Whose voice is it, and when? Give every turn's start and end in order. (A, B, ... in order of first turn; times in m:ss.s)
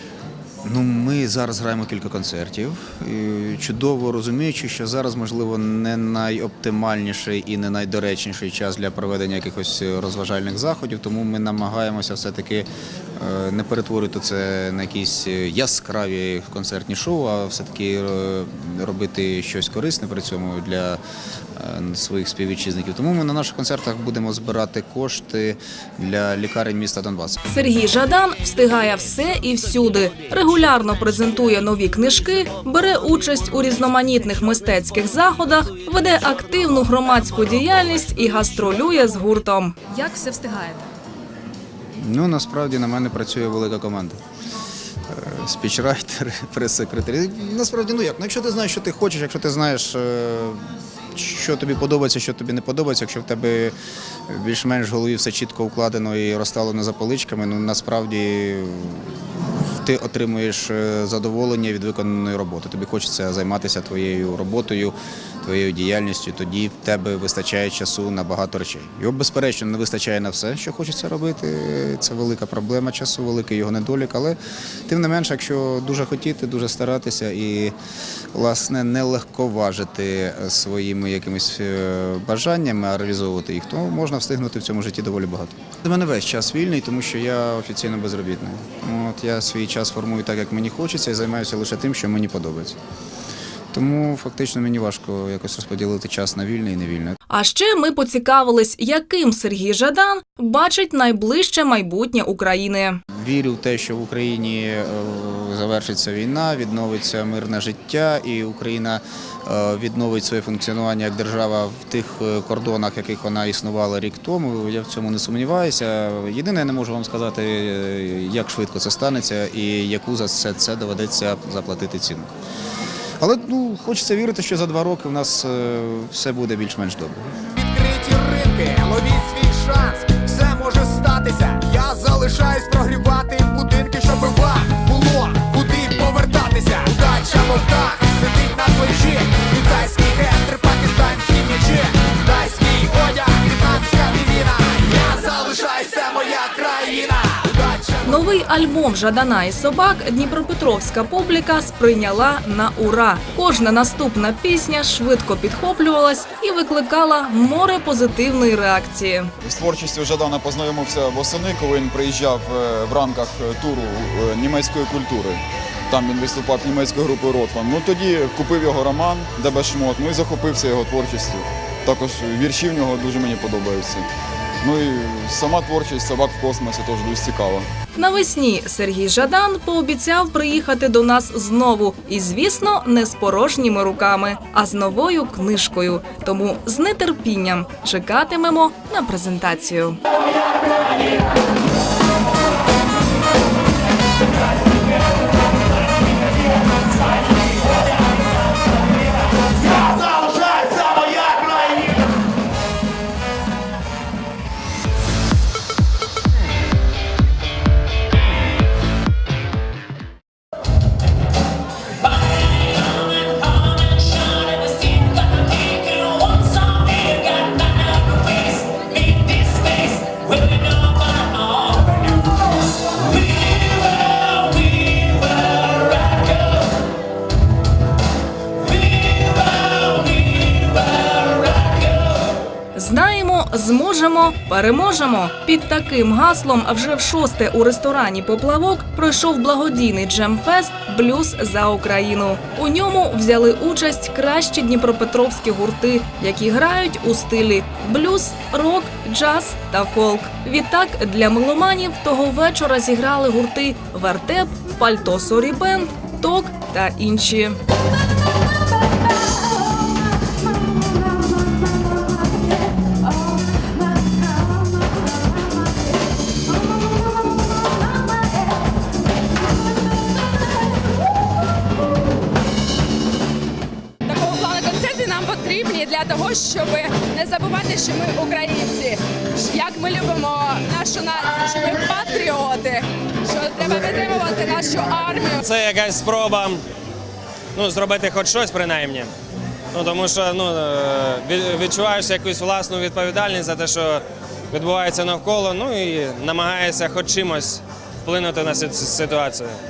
0:00.6-0:21.0 A
0:21.6-0:27.4 A
0:27.5-0:40.9 B
0:42.0-0:44.2 A
0:45.1-0:53.7 A
0:54.3-1:14.4 A
1:14.9-1:17.7 A
1:18.3-1:32.8 A
1:33.7-1:37.2 A
1:37.3-1:43.0 B
1:43.1-2:02.3 A
2:03.2-2:07.3 A
2:07.5-2:28.2 C
2:28.0-2:39.3 B
2:39.4-2:54.0 D
2:54.6-2:57.7 D
2:58.0-3:10.0 B
3:52.7-4:17.6 B
4:34.0-4:45.4 E
4:45.4-4:46.6 F
4:47.5-4:49.1 F
4:49.7-4:59.5 F